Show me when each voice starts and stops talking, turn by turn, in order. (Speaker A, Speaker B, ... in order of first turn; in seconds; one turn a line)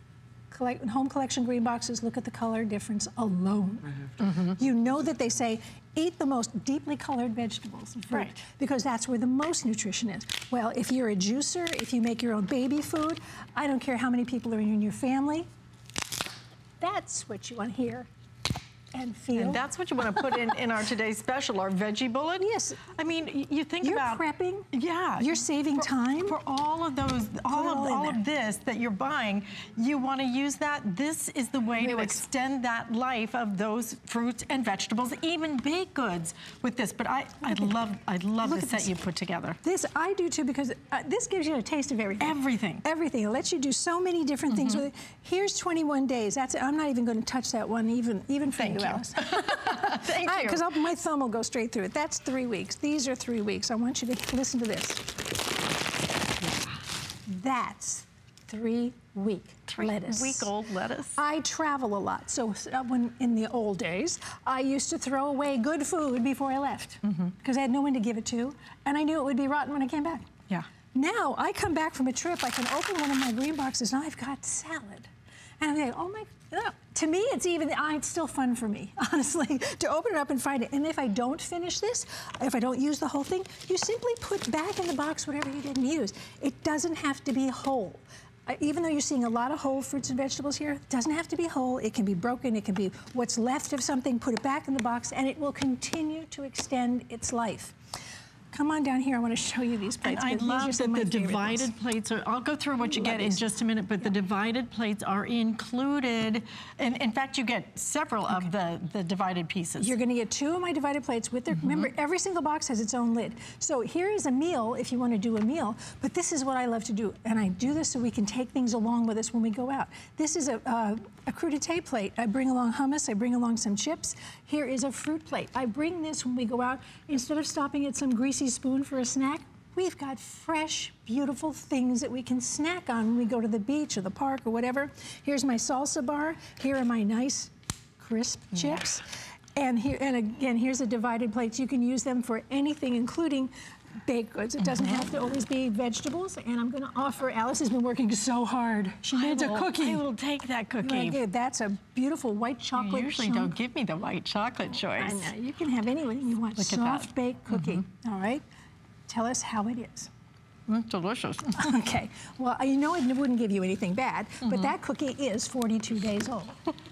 Speaker A: 0.5-15.5
Speaker B: 4.2-4.6
Speaker A: 16.8-18.1
Speaker A: 18.9-19.6
Speaker B: 19.4-39.6
Speaker A: 22.4-22.8
Speaker A: 23.8-26.4
Speaker A: 27.5-28.2
Speaker A: 31.8-32.2
Speaker A: 38.4-38.9
Speaker A: 39.6-55.0
Speaker B: 42.2-42.8
Speaker B: 44.5-44.8
Speaker B: 48.6-50.7
Speaker A: 57.3-60.5
Speaker B: 59.7-61.2
Speaker A: 61.2-70.3
Speaker A: 70.9-75.1
Speaker A: 75.6-97.8
Speaker A: 98.5-101.7
Speaker B: 100.0-109.9
Speaker A: 102.8-103.4
Speaker A: 109.8-139.0
Speaker A: 139.6-143.5
Speaker A: 144.1-150.0
Speaker B: 149.1-151.2
Speaker A: 150.8-153.5
Speaker B: 152.8-155.3
Speaker A: 154.8-158.4
Speaker B: 156.6-157.8
Speaker A: 159.1-160.1
Speaker B: 160.7-161.6
Speaker A: 161.6-166.6
Speaker B: 164.4-164.7